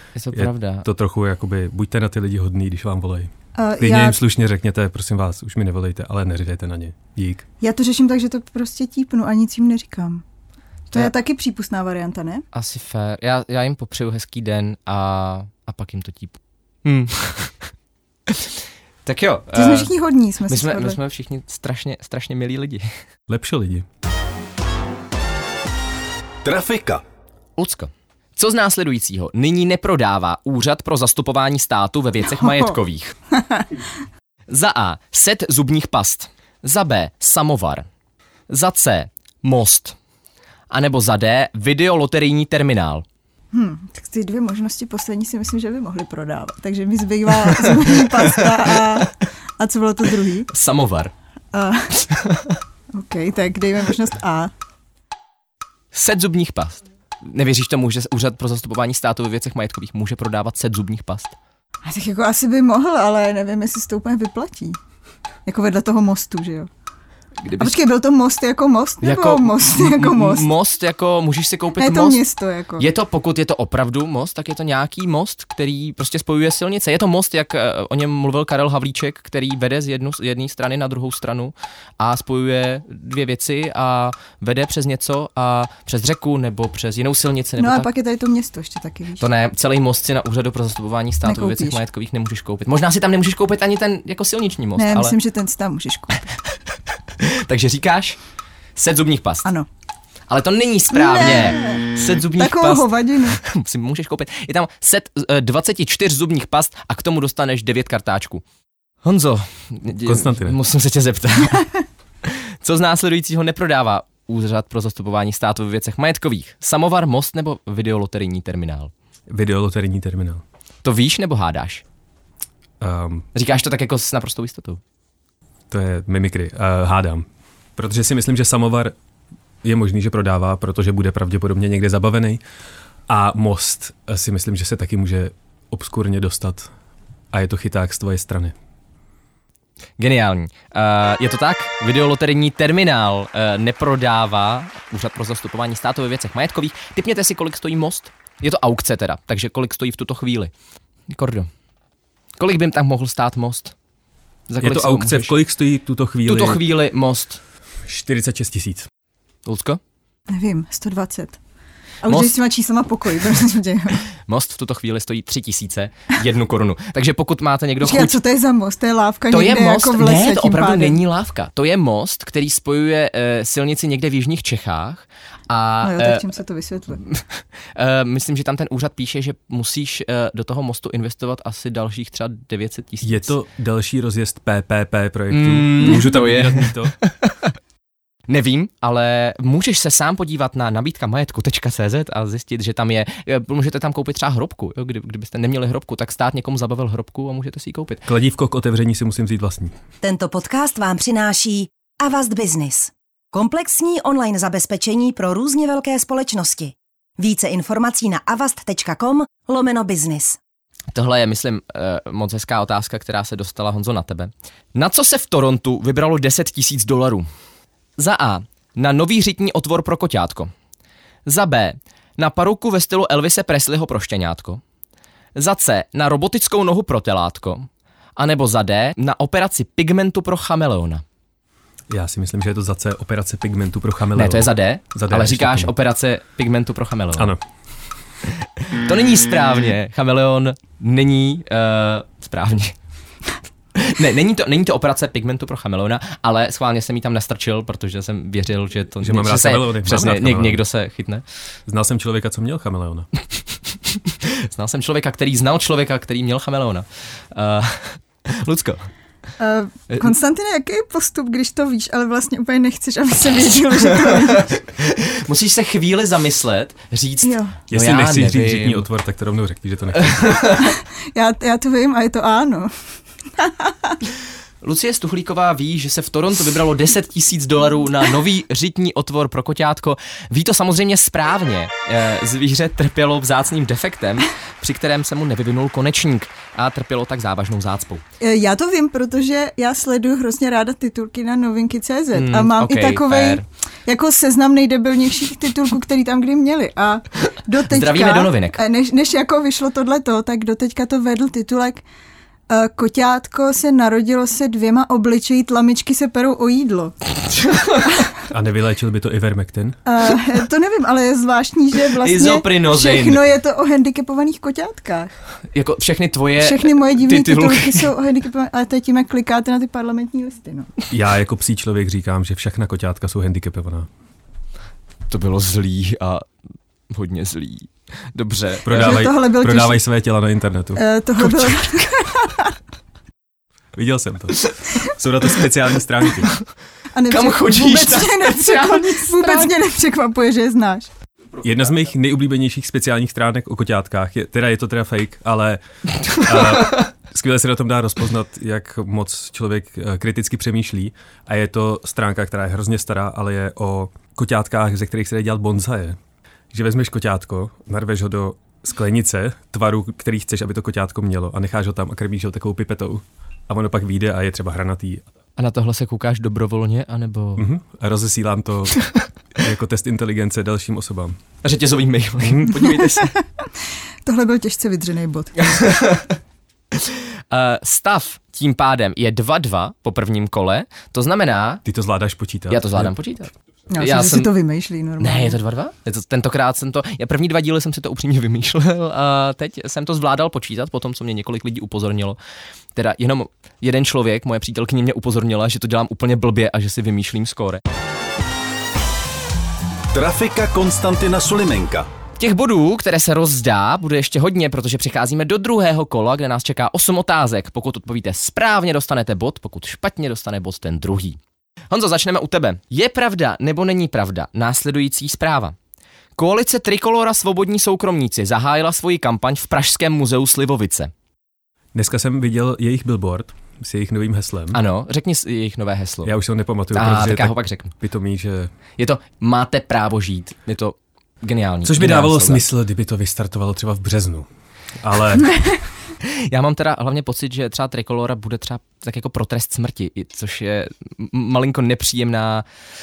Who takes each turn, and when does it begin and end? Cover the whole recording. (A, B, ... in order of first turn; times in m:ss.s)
0:00.2-0:00.9 A
0:00.3-0:07.4 B
0:03.6-0:04.2 C
0:07.6-0:10.2 C
0:10.9-0:12.4 C
0:12.5-0:17.7 A
0:18.3-0:19.9 A
0:19.6-0:21.0 C
0:20.5-0:22.9 A
0:23.3-0:23.9 B
0:26.4-0:27.0 D
0:27.6-0:33.2 A
0:34.5-0:37.9 A
0:38.5-0:40.0 A
0:40.7-0:43.0 A
0:43.5-0:50.5 C
0:47.5-0:49.1 A
0:50.5-0:51.1 A
0:51.5-0:52.0 C
0:52.0-0:52.6 A
0:52.9-0:54.5 C
0:55.9-1:01.4 A
1:01.8-1:04.8 C
1:05.5-1:06.7 C
1:07.4-1:07.8 A
1:07.6-1:10.5 C
1:09.0-1:12.2 A
1:11.8-1:12.9 C
1:12.8-1:27.9 A
1:27.6-1:29.2 C
1:29.2-1:35.2 A
1:31.2-1:31.8 C
1:34.8-1:36.3 C
1:37.2-1:38.2 A
1:38.8-1:39.5 A
1:40.3-1:48.4 A
1:40.9-1:43.4 C
1:49.0-1:51.7 A
1:50.0-1:50.6 B
1:52.2-1:58.9 A
1:59.3-2:00.4 B
2:00.8-2:01.8 A
2:02.8-2:03.3 B
2:03.3-2:04.8 A
2:05.7-2:07.3 B
2:07.8-2:09.0 B
2:09.6-2:12.4 B
2:13.1-2:16.7 B
2:17.3-2:18.6 B
2:20.0-2:30.5 A
2:31.1-2:31.5 A
2:32.4-2:33.8 A
2:34.5-2:35.4 A
2:34.6-2:36.6 B
2:36.3-2:37.4 A
2:37.9-2:38.9 B
2:39.5-2:39.8 A
2:40.3-2:41.4 C
2:42.0-2:44.0 C
2:42.1-2:42.3 A
2:44.2-2:48.2 A
2:47.8-2:51.0 C
2:49.3-2:56.3 A
2:55.8-2:57.0 C
2:57.0-3:03.3 A
3:03.0-3:06.9 B
3:05.3-3:07.5 A
3:08.3-3:18.1 A
3:18.1-3:19.7 B
3:20.0-3:30.4 E
3:30.9-3:37.3 A
3:38.0-3:40.5 A
3:41.3-3:44.6 A
3:45.4-3:51.0 A
3:51.9-3:55.7 B
3:54.2-3:57.4 A
3:58.3-4:02.8 A
4:03.8-4:11.2 A
4:09.0-4:10.6 B
4:11.7-4:13.1 B
4:13.9-4:18.9 A
4:19.4-4:24.5 C
4:24.0-4:28.9 A
4:27.2-4:27.6 C
4:27.7-4:30.4 B
4:30.0-4:30.8 A
4:31.1-4:32.7 C
4:33.4-4:34.0 C
4:34.6-4:48.0 A
4:48.2-5:01.8 C
4:52.1-4:53.4 A
4:57.7-4:58.6 A
5:02.5-5:06.9 C
5:07.3-5:07.9 A
5:08.3-5:09.8 B
5:09.9-5:15.1 C
5:12.0-5:13.2 A
5:15.5-5:17.9 A
5:16.4-5:20.7 C
5:20.9-5:23.9 B
5:25.1-5:26.3 A
5:26.9-5:29.0 A
5:28.6-5:31.5 B
5:28.7-5:29.8 C
5:30.8-5:32.5 C
5:33.8-5:36.3 B
5:36.9-5:40.9 C
5:37.1-5:39.5 A
5:41.4-5:45.6 B
5:46.1-5:46.8 A
5:46.2-5:56.0 B
5:56.5-6:05.0 B
6:05.4-6:07.5 A
6:07.4-6:08.8 B
6:09.4-6:11.2 B
6:11.4-6:13.1 A
6:12.2-6:12.7 B
6:12.7-6:13.2 C
6:14.0-6:15.4 C
6:15.4-6:16.2 A
6:16.8-6:21.6 A
6:21.6-6:22.9 B
6:22.5-6:24.3 A
6:23.7-6:25.4 C
6:25.0-6:32.2 A
6:32.8-6:37.6 A
6:39.9-6:41.9 D
6:42.2-6:51.2 A
6:51.7-6:55.6 A
6:56.2-7:00.9 A
7:01.7-7:04.6 B
7:04.5-7:06.1 A
7:06.0-7:08.5 B
7:06.7-7:07.7 A
7:08.8-7:12.4 A
7:11.6-7:14.3 B
7:14.8-7:15.3 B
7:16.0-7:22.4 A